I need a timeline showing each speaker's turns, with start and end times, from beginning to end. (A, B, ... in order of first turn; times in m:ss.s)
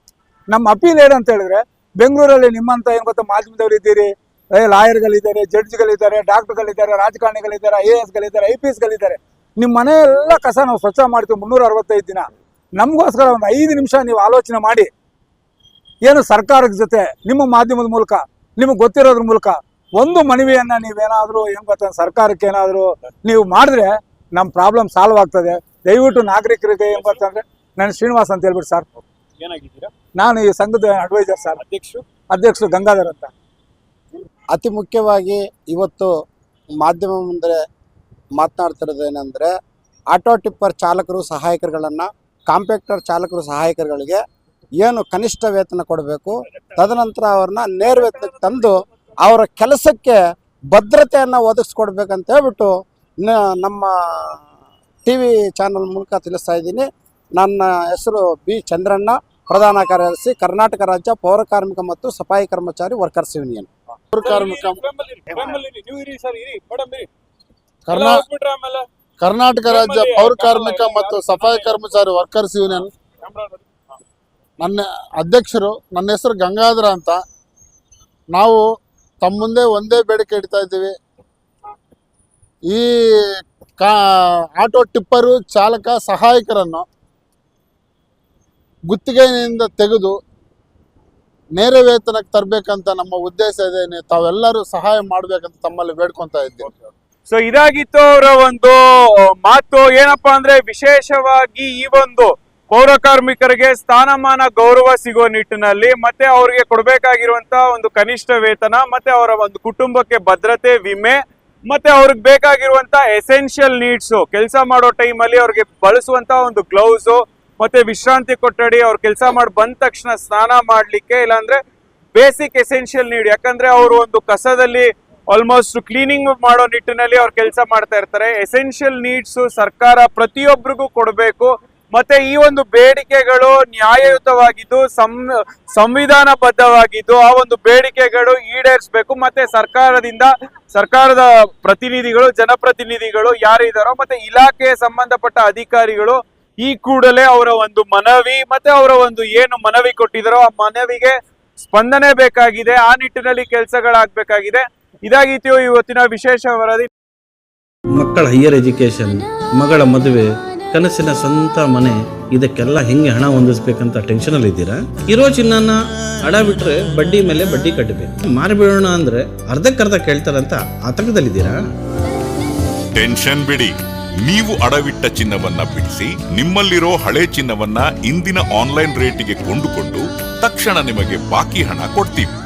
0:00.5-0:14.9 A
0:16.1-0:28.8 A
0:26.9-0:27.3 B
0:29.4-0:29.9 B
0:30.2-0:31.6 A
0:31.6-0:32.1 B
0:32.3-0:33.3 A
0:34.5-0:36.1 C
0:36.8-0:37.6 C
0:38.4-0:39.5 C
0:40.1-0:44.2 C
0:44.8-0:50.2 C
0:50.7-0:54.4 C
0:55.0-1:03.7 C
1:04.1-1:04.8 D
1:04.2-1:07.1 B
1:07.8-1:08.2 D
1:07.9-1:08.8 B
1:09.2-1:12.9 D
1:09.6-1:12.0 B
1:13.2-1:13.7 B
1:14.6-1:17.2 D
1:18.3-1:18.6 D
1:19.2-1:20.9 D
1:24.6-1:26.8 D
1:28.9-1:30.2 D
1:31.6-1:36.9 D
1:37.3-1:38.8 B
1:39.4-2:01.6 B
2:02.1-2:36.9 B
2:38.1-2:51.6 E
2:52.9-3:02.3 F